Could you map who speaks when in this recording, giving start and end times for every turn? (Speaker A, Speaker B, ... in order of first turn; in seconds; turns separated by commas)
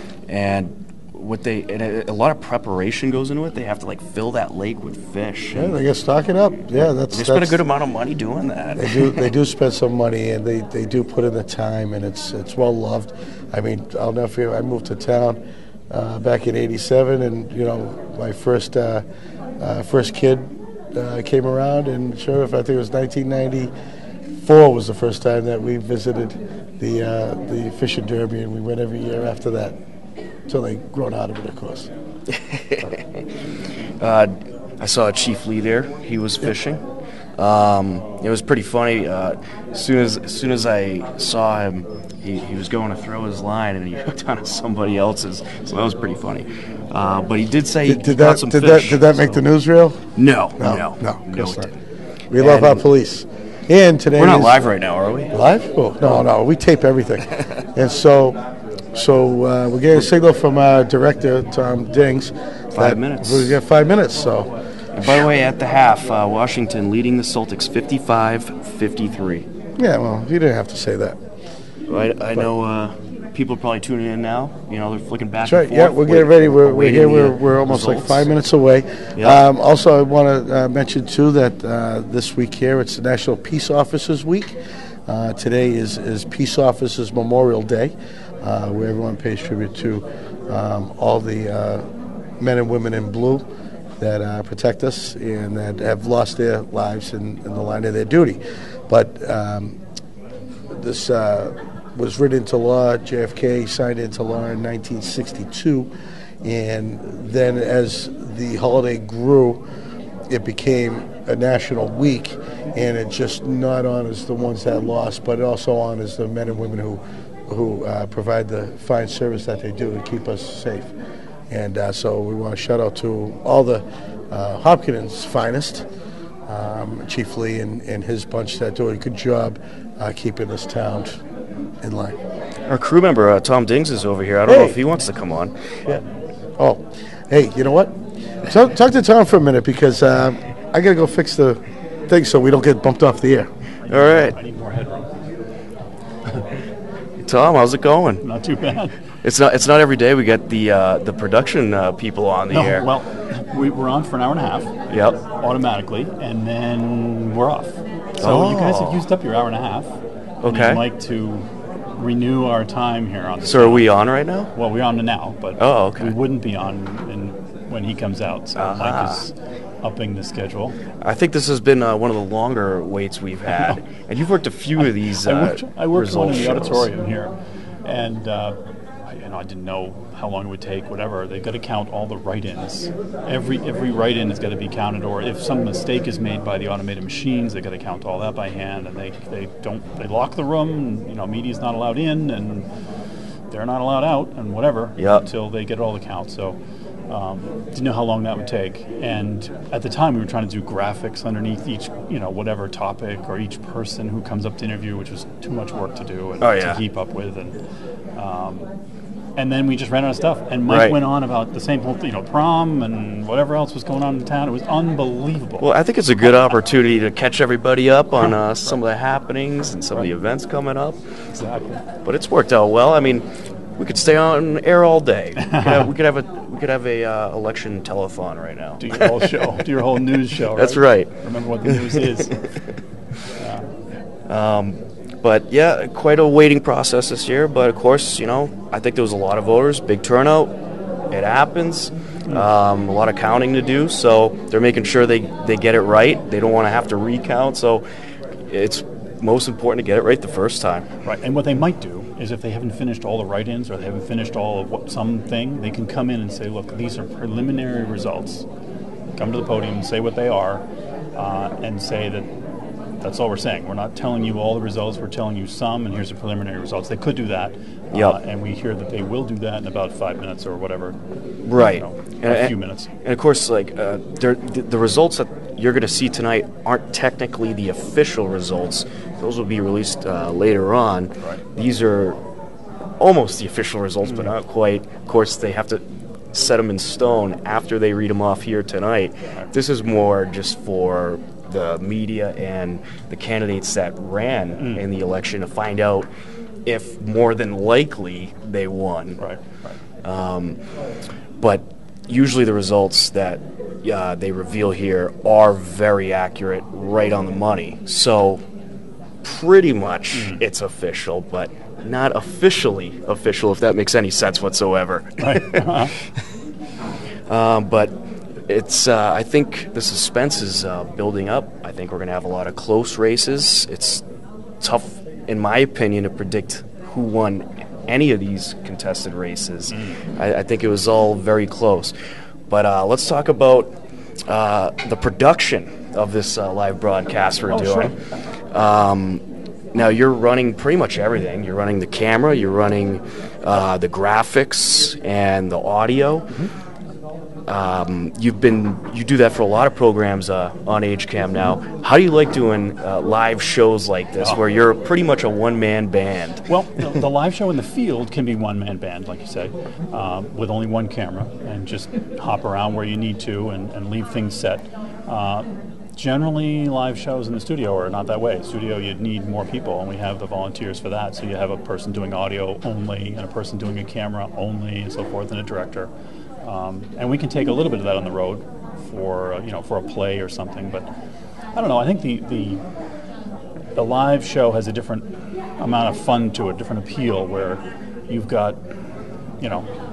Speaker A: 0.3-5.8, Speaker B: 5.5-7.6, Speaker A: 7.1-9.3, Speaker B: 8.8-19.1, Speaker B: 19.6-23.7, Speaker B: 24.4-29.8, Speaker B: 30.5-31.9, Speaker A: 32.3-33.2, Speaker A: 34.0-36.8, Speaker A: 37.4-49.4, Speaker B: 47.9-50.0, Speaker A: 50.2-51.8, Speaker B: 50.6-51.7, Speaker B: 52.3-54.6, Speaker A: 52.4-52.9, Speaker A: 54.1-55.4, Speaker B: 55.3-58.4, Speaker B: 58.9-64.5, Speaker A: 62.8-63.6, Speaker A: 65.0-69.5, Speaker B: 69.8-71.2, Speaker A: 71.9-78.3, Speaker B: 75.5-91.9, Speaker A: 79.2-79.4, Speaker B: 92.4-93.4, Speaker B: 94.0-99.8, Speaker B: 100.7-105.9, Speaker B: 106.4-109.6, Speaker B: 110.3-120.9, Speaker B: 121.5-125.9, Speaker B: 126.5-131.2, Speaker B: 131.8-132.2, Speaker A: 132.7-135.5, Speaker B: 134.5-134.8, Speaker B: 136.6-143.5, Speaker A: 143.9-144.4, Speaker C: 143.9-145.1, Speaker A: 147.2-148.2, Speaker C: 148.2-149.0, Speaker A: 149.2-152.9, Speaker C: 152.5-154.7, Speaker A: 154.9-155.2, Speaker C: 155.4-159.9, Speaker A: 158.2-159.1, Speaker A: 160.4-160.8, Speaker C: 160.5-163.9, Speaker A: 163.4-164.5, Speaker C: 164.6-170.7, Speaker A: 165.6-166.2, Speaker A: 168.6-169.3, Speaker A: 171.0-176.9, Speaker C: 174.8-177.3, Speaker C: 177.8-178.6, Speaker C: 179.1-192.7, Speaker C: 193.5-196.6, Speaker A: 195.0-195.3, Speaker C: 197.1-207.6, Speaker A: 206.4-206.8, Speaker C: 208.2-208.7, Speaker C: 209.4-215.7, Speaker A: 210.7-211.0, Speaker A: 215.6-221.0, Speaker C: 221.4-221.8, Speaker A: 222.1-223.3, Speaker A: 223.8-229.6, Speaker C: 225.4-225.9, Speaker C: 228.8-232.3, Speaker A: 230.5-231.1, Speaker A: 231.7-232.3, Speaker C: 233.4-233.7, Speaker A: 234.3-240.5, Speaker A: 241.1-247.8, Speaker A: 248.5-250.9, Speaker C: 251.1-258.4, Speaker C: 259.2-260.6, Speaker C: 261.2-262.3, Speaker C: 263.0-271.0, Speaker A: 267.9-268.2, Speaker A: 271.4-282.2, Speaker C: 271.6-272.9, Speaker A: 283.0-296.1, Speaker C: 284.1-284.3, Speaker C: 294.6-294.8, Speaker A: 296.7-299.2, Speaker C: 299.2-299.8, Speaker A: 300.0-300.6, Speaker A: 301.4-308.4, Speaker A: 309.2-315.9, Speaker C: 310.1-310.4, Speaker C: 315.2-315.9, Speaker A: 317.3-317.9, Speaker A: 318.5-324.0, Speaker A: 324.6-331.9, Speaker C: 329.7-330.0, Speaker A: 332.5-333.7, Speaker A: 334.3-338.0, Speaker C: 337.5-337.9, Speaker A: 338.5-339.2, Speaker A: 339.7-346.3, Speaker A: 347.5-356.4, Speaker C: 356.5-375.9, Speaker C: 376.4-380.9, Speaker C: 381.6-382.6, Speaker C: 383.8-385.1, Speaker C: 385.6-388.6, Speaker C: 389.4-389.7